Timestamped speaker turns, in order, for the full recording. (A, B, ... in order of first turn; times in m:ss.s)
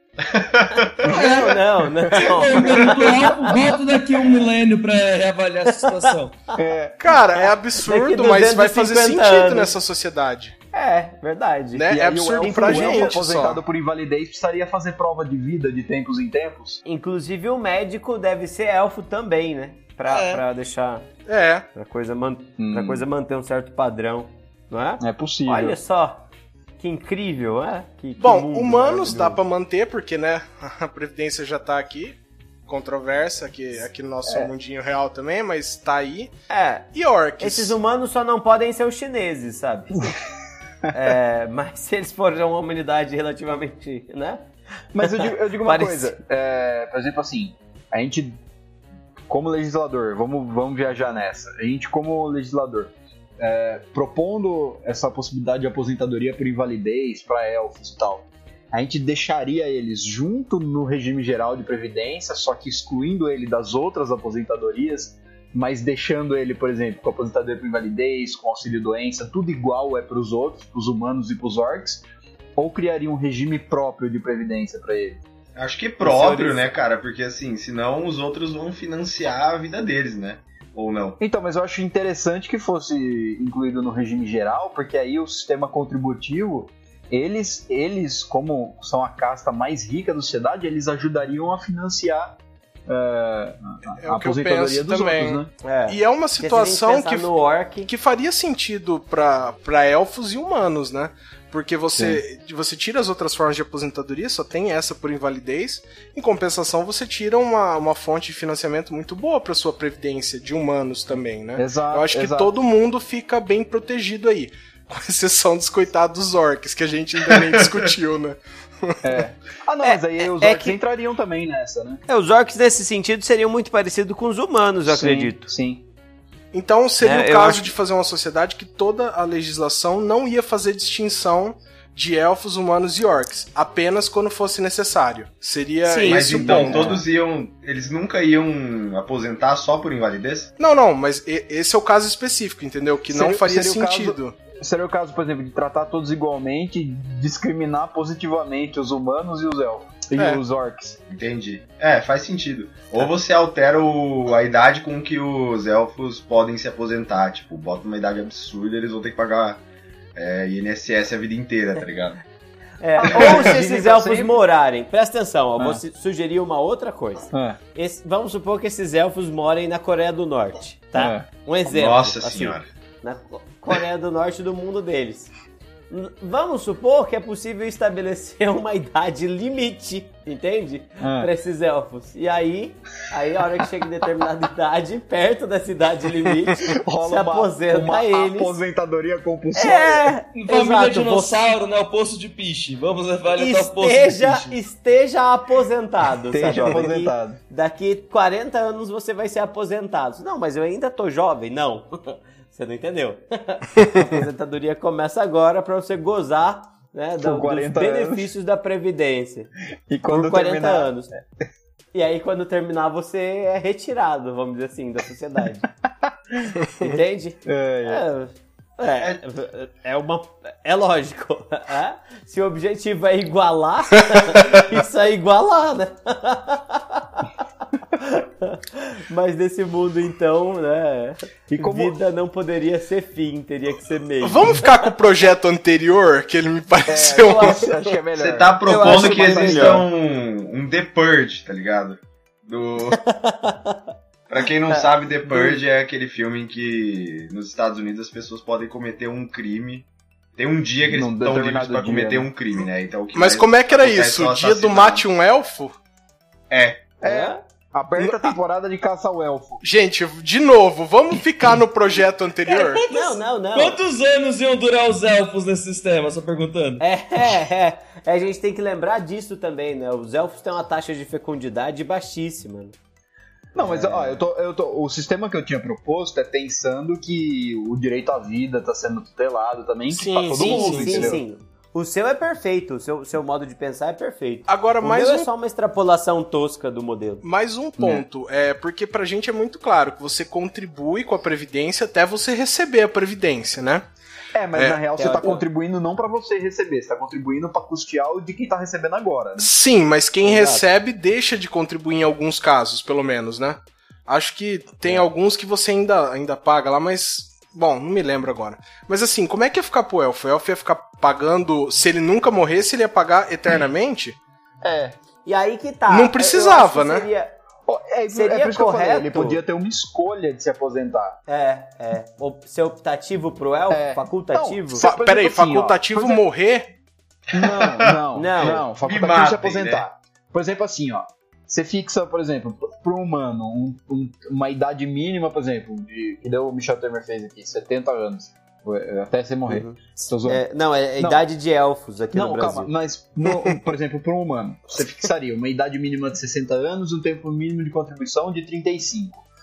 0:00.2-0:01.1 A
0:01.0-0:01.6 B
0:01.0-0:03.7 C
0:01.1-0:01.3 D
0:02.1-0:06.4 B
0:05.7-0:06.1 C
0:06.5-0:07.0 D
0:07.0-0:10.5 E
0:07.1-0:09.7 C
0:10.7-0:13.2 C
0:11.7-0:13.6 E
0:11.9-0:16.8 D
0:16.8-0:21.1 C
0:20.0-0:20.4 B
0:21.3-0:21.7 E
0:21.7-0:26.2 C
0:22.6-0:23.0 D
0:25.0-0:25.8 D
0:26.8-0:29.4 C
0:28.2-0:36.3 E
0:36.5-0:36.9 C
0:36.9-0:37.8 E
0:37.4-0:40.1 C
0:40.9-0:44.4 C
0:44.9-0:48.4 D
0:45.0-0:46.2 C
0:49.3-1:12.0 D
1:12.6-1:15.2 D
1:15.6-1:21.2 A
1:16.0-1:16.7 C
1:21.2-1:35.5 D
1:34.0-1:37.3 E
1:35.6-1:37.9 C
1:37.8-1:59.0 E
1:41.9-1:42.2 D
1:51.6-1:52.5 D
1:59.0-2:02.0 D
1:59.8-2:00.8 C
2:02.1-2:05.5 C
2:04.8-2:05.8 D
2:06.5-2:16.9 E
2:07.0-2:07.7 C
2:15.8-2:16.9 C
2:16.1-2:20.5 A
2:16.5-2:17.0 D
2:20.6-2:24.3 E
2:23.1-2:31.0 D
2:30.2-2:30.4 E
2:31.1-2:39.6 A
2:40.1-2:42.2 A
2:42.8-2:55.3 C
2:43.0-2:44.4 D
2:43.1-2:43.5 A
2:47.3-2:47.6 D
2:50.9-2:51.3 D
2:51.7-2:52.6 A
2:55.9-3:08.6 C
3:01.0-3:01.3 D
3:06.6-3:10.1 D
3:09.5-3:11.4 C
3:10.3-3:14.6 B
3:13.3-3:29.5 C
3:16.3-3:17.4 D
3:27.2-3:28.3 D
3:29.9-3:31.2 D
3:30.0-3:31.1 C
3:31.9-3:35.6 C
3:36.0-3:38.0 D
3:36.8-3:47.3 C
3:47.9-3:54.8 C
3:51.5-3:52.0 D
3:54.2-3:57.6 E
3:56.8-3:59.8 D
3:57.2-3:57.9 C
3:58.2-4:03.0 A
3:58.6-3:59.8 C
4:03.0-4:03.8 C
4:04.3-4:15.1 A
4:04.7-4:05.6 C
4:10.8-4:12.3 D
4:13.1-4:15.8 E
4:16.5-4:16.8 A
4:17.0-4:19.6 D
4:17.0-4:17.4 C
4:18.0-4:18.3 E
4:19.6-4:22.8 E
4:22.5-4:26.8 B
4:22.9-4:23.8 C
4:26.8-4:32.7 C
4:33.5-4:41.2 D
4:33.6-4:34.2 C
4:39.9-4:41.2 E
4:40.4-4:47.2 C
4:44.5-4:45.3 E
4:47.2-4:53.9 E
4:47.8-4:48.0 D
4:54.3-4:59.5 D
4:54.5-4:54.8 E
4:55.0-4:55.4 C
4:59.4-5:14.2 E
5:00.2-5:00.6 C
5:14.6-5:15.0 D
5:15.2-5:17.4 C
5:15.9-5:17.1 E
5:17.7-5:21.2 D
5:18.1-5:19.4 C
5:21.3-5:24.8 C
5:23.7-5:26.2 D
5:24.8-5:26.7 E
5:27.3-5:29.8 A
5:27.3-5:40.4 D
5:28.1-5:28.6 C
5:39.5-5:42.7 C
5:41.0-5:41.2 D
5:42.1-5:49.2 D